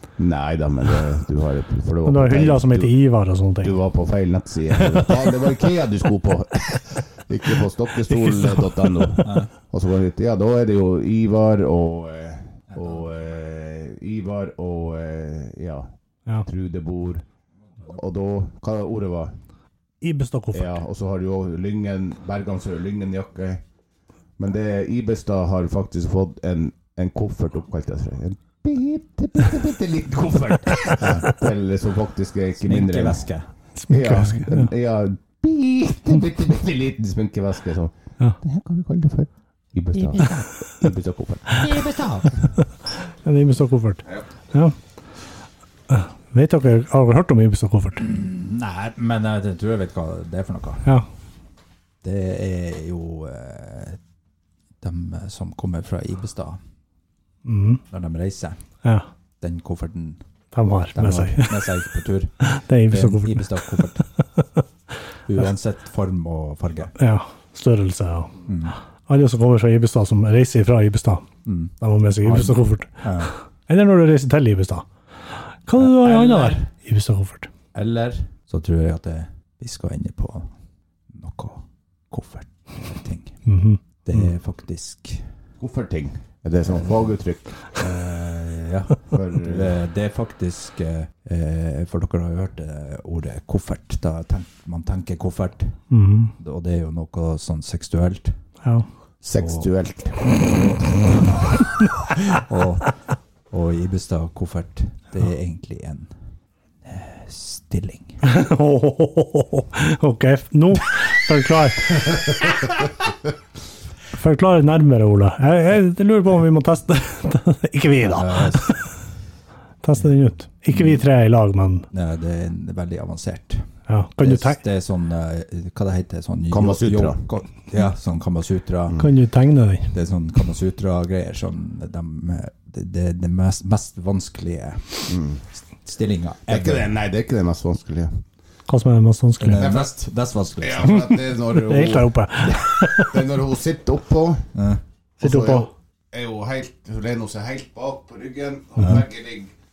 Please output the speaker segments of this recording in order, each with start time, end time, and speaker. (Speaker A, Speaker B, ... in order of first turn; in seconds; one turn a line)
Speaker A: 0.2-2.9
Speaker B: 2.0-3.8
Speaker A: 3.6-15.9
Speaker B: 4.8-5.1
Speaker B: 8.1-9.2
Speaker C: 9.2-9.5
Speaker A: 16.4-17.2
Speaker A: 17.9-19.3
Speaker B: 20.0-20.7
Speaker A: 20.5-23.6
Speaker A: 24.4-33.3
Speaker C: 32.6-33.5
Speaker B: 33.8-34.7
Speaker A: 33.9-41.6
Speaker C: 40.1-40.4
Speaker C: 41.6-42.5
Speaker B: 43.2-44.7
Speaker B: 45.9-48.0
Speaker C: 48.0-50.9
Speaker C: 52.0-54.0
Speaker C: 54.8-56.6
Speaker B: 57.4-57.8
Speaker C: 57.9-58.6
Speaker C: 59.4-60.2
Speaker B: 60.5-61.8
Speaker C: 60.9-64.0
Speaker B: 62.4-64.6
Speaker C: 65.3-66.9
Speaker B: 67.0-68.4
Speaker C: 68.5-68.8
Speaker B: 69.1-71.2
Speaker C: 71.5-73.3
Speaker B: 71.8-74.8
Speaker B: 75.7-77.5
Speaker C: 75.8-76.7
Speaker C: 77.7-80.5
Speaker C: 81.1-83.4
Speaker B: 83.5-84.2
Speaker C: 84.0-85.3
Speaker A: 85.6-87.9
Speaker C: 86.7-87.0
Speaker C: 87.8-98.3
Speaker A: 89.1-89.7
Speaker B: 95.9-96.3
Speaker A: 99.2-100.4
Speaker C: 99.4-99.7
Speaker C: 102.4-106.1
Speaker C: 106.8-108.2
Speaker B: 108.2-112.6
Speaker B: 114.1-118.9
Speaker C: 118.0-118.8
Speaker B: 119.8-121.9
Speaker C: 120.7-121.0
Speaker C: 121.9-123.7
Speaker B: 123.9-124.6
Speaker C: 124.2-129.1
Speaker A: 126.5-127.2
Speaker B: 129.0-129.9
Speaker C: 129.9-136.9
Speaker A: 135.1-135.4
Speaker A: 136.5-138.2
Speaker B: 138.7-139.7
Speaker C: 139.4-140.9
Speaker A: 139.5-139.9
Speaker A: 140.6-144.5
Speaker B: 140.9-143.3
Speaker C: 144.5-144.8
Speaker A: 145.2-149.5
Speaker B: 145.2-145.7
Speaker C: 148.8-149.0